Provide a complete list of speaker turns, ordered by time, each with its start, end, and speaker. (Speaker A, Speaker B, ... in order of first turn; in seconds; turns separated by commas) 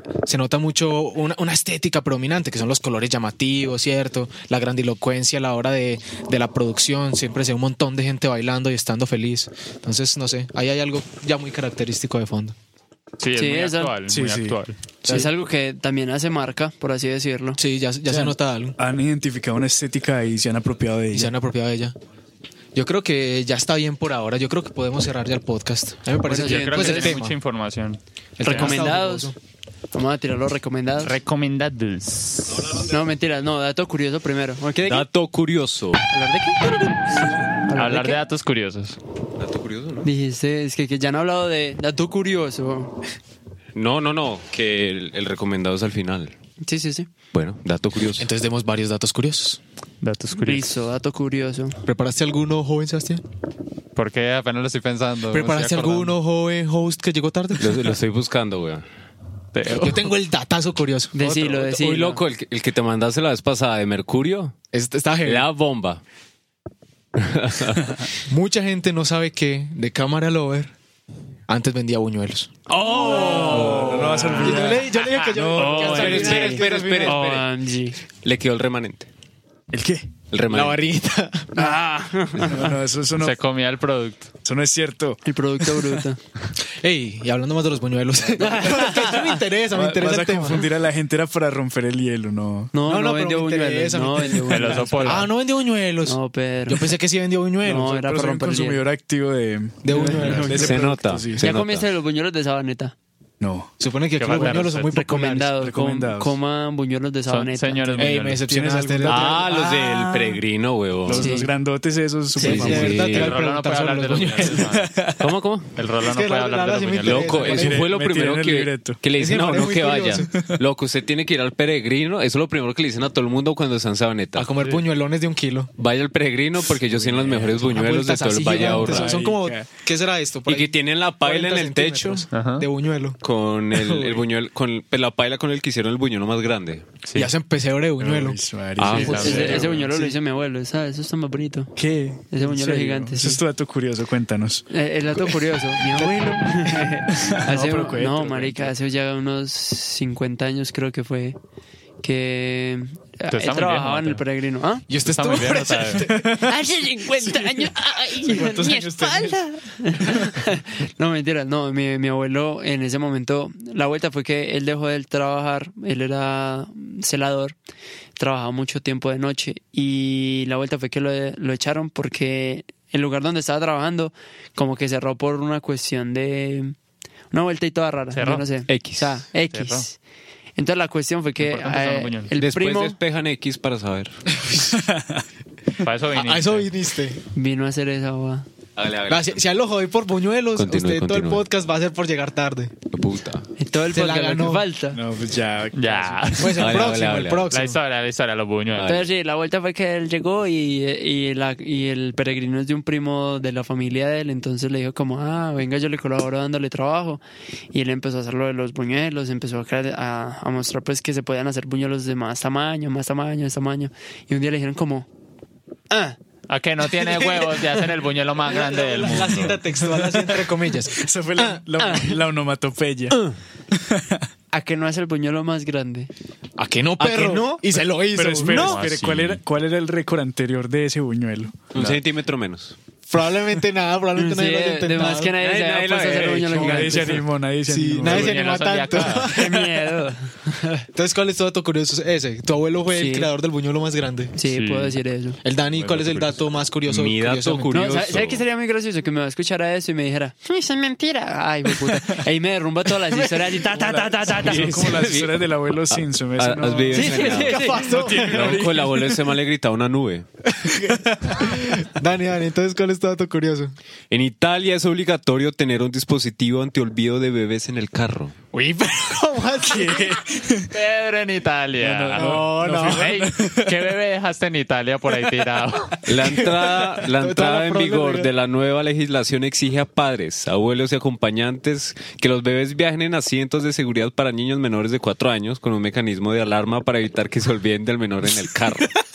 Speaker A: 0.2-12.6, Speaker B: 13.2-14.8, Speaker C: 13.3-13.9, Speaker D: 14.1-14.6, Speaker A: 15.0-15.3, Speaker C: 15.1-17.6, Speaker A: 17.6-18.8, Speaker D: 18.1-21.3, Speaker A: 21.1-21.9, Speaker A: 22.7-27.4, Speaker C: 26.2-27.2, Speaker B: 26.4-28.8, Speaker A: 28.4-29.3, Speaker C: 28.4-29.3, Speaker C: 29.9-31.1, Speaker B: 31.0-32.8, Speaker E: 32.5-32.9, Speaker C: 32.8-35.1, Speaker E: 34.8-36.0, Speaker C: 36.1-38.2, Speaker B: 37.7-39.0, Speaker E: 39.4-40.1, Speaker C: 40.0-42.9, Speaker E: 43.7-46.3, Speaker C: 46.6-47.1, Speaker E: 47.3-48.2, Speaker A: 48.2-49.6, Speaker B: 50.0-50.7, Speaker C: 50.3-51.8, Speaker A: 51.8-53.2, Speaker B: 53.9-56.1, Speaker A: 55.3-57.9, Speaker E: 57.6-58.9, Speaker B: 59.5-60.1, Speaker A: 59.6-61.2, Speaker C: 61.1-62.2, Speaker E: 61.2-64.5, Speaker A: 64.7-65.5, Speaker E: 65.2-66.0, Speaker E: 67.2-68.0, Speaker A: 68.3-70.7, Speaker A: 71.5-77.2, Speaker C: 72.7-74.8, Speaker D: 73.2-76.5, Speaker E: 73.7-74.2, Speaker C: 75.5-78.0, Speaker E: 75.8-77.5, Speaker E: 78.2-79.1, Speaker D: 79.7-80.1, Speaker E: 80.3-80.8, Speaker A: 80.5-81.7, Speaker C: 81.5-82.8, Speaker D: 82.4-83.4, Speaker B: 83.2-84.3, Speaker D: 84.4-86.0, Speaker C: 85.2-86.2, Speaker A: 86.7-90.7, Speaker C: 88.4-89.3, Speaker D: 89.7-92.7, Speaker C: 92.7-95.3, Speaker A: 92.8-98.0, Speaker B: 94.4-95.3, Speaker C: 96.0-97.0, Speaker C: 97.6-98.8, Speaker D: 97.8-101.5, Speaker A: 99.8-100.7, Speaker C: 99.9-100.8, Speaker E: 100.5-101.9, Speaker C: 101.4-102.9, Speaker D: 103.4-103.7, Speaker A: 103.8-105.5, Speaker B: 104.2-105.0, Speaker C: 104.6-108.1, Speaker D: 105.5-106.3, Speaker B: 107.3-108.4, Speaker A: 108.0-109.5, Speaker D: 108.2-109.5, Speaker E: 109.1-111.3, Speaker C: 109.5-110.3, Speaker D: 111.0-113.2, Speaker C: 111.2-111.5, Speaker C: 112.4-112.8, Speaker E: 112.4-113.4, Speaker A: 112.5-114.7, Speaker B: 113.1-115.0, Speaker D: 114.5-115.3, Speaker E: 115.2-115.8, Speaker B: 115.8-117.5, Speaker A: 116.0-117.8, Speaker E: 117.0-124.5, Speaker D: 117.5-119.0, Speaker A: 119.2-120.3, Speaker A: 124.3-125.7, Speaker E: 125.8-129.2, Speaker D: 127.0-127.5, Speaker A: 127.5-133.2, Speaker D: 128.5-129.7, Speaker E: 130.4-132.3, Speaker B: 132.3-132.7, Speaker E: 133.2-136.8, Speaker D: 133.8-134.2, Speaker A: 137.1-138.4, Speaker D: 138.0-140.1, Speaker E: 138.8-139.8, Speaker C: 138.9-141.7, Speaker B: 138.9-139.8, Speaker D: 141.8-148.7, Speaker C: 142.3-143.4, Speaker C: 144.7-151.4, Speaker C: 152.0-154.8, Speaker B: 153.3-154.2, Speaker A: 154.9-156.4, Speaker B: 155.0-156.1, Speaker D: 156.0-156.5, Speaker C: 156.4-167.5, Speaker D: 158.2-159.2, Speaker A: 158.2-159.3, Speaker C: 168.2-176.8, Speaker C: 177.3-180.0, Speaker B: 178.1-178.5, Speaker E: 178.7-179.2, Speaker B: 179.4-179.8, Speaker C: 180.6-183.0, Speaker B: 181.4-182.3, Speaker E: 182.4-184.3, Speaker A: 184.4-184.7, Speaker D: 184.7-185.2, Speaker B: 185.8-186.7, Speaker A: 186.1-187.2, Speaker C: 187.3-188.5, Speaker E: 188.8-189.4, Speaker A: 189.1-192.7, Speaker E: 190.6-191.4, Speaker E: 192.9-193.5, Speaker C: 193.6-195.0, Speaker A: 193.9-194.7, Speaker D: 194.9-196.6, Speaker B: 195.7-196.8, Speaker A: 196.4-197.8, Speaker E: 196.6-197.5, Speaker B: 197.5-198.9, Speaker E: 198.7-199.1, Speaker C: 198.8-215.1, Speaker C: 215.9-216.2, Speaker B: 216.5-219.6, Speaker A: 218.4-221.6, Speaker D: 219.8-224.3, Speaker C: 224.5-226.1, Speaker A: 226.6-228.8, Speaker E: 227.0-227.6, Speaker D: 228.1-231.6, Speaker B: 228.4-229.4, Speaker E: 231.7-232.8, Speaker B: 231.8-232.0, Speaker A: 233.1-235.4, Speaker C: 234.2-237.3, Speaker E: 235.4-237.1, Speaker D: 236.5-238.4, Speaker A: 237.6-239.5, Speaker B: 238.0-239.3, Speaker C: 239.3-240.9, Speaker A: 240.9-244.3, Speaker C: 242.9-243.3, Speaker C: 244.3-245.4, Speaker B: 244.5-245.0, Speaker A: 245.4-248.0, Speaker E: 246.9-248.4, Speaker C: 247.7-255.1, Speaker D: 253.7-259.0, Speaker E: 254.4-260.3, Speaker C: 256.9-258.2, Speaker A: 257.2-258.7, Speaker A: 260.7-263.7, Speaker D: 260.7-261.7, Speaker E: 264.1-268.3, Speaker A: 268.5-270.1, Speaker D: 269.6-270.7, Speaker B: 270.7-276.0, Speaker D: 271.8-273.8, Speaker A: 272.1-273.1, Speaker E: 276.1-288.9, Speaker D: 276.1-276.7, Speaker A: 277.1-278.3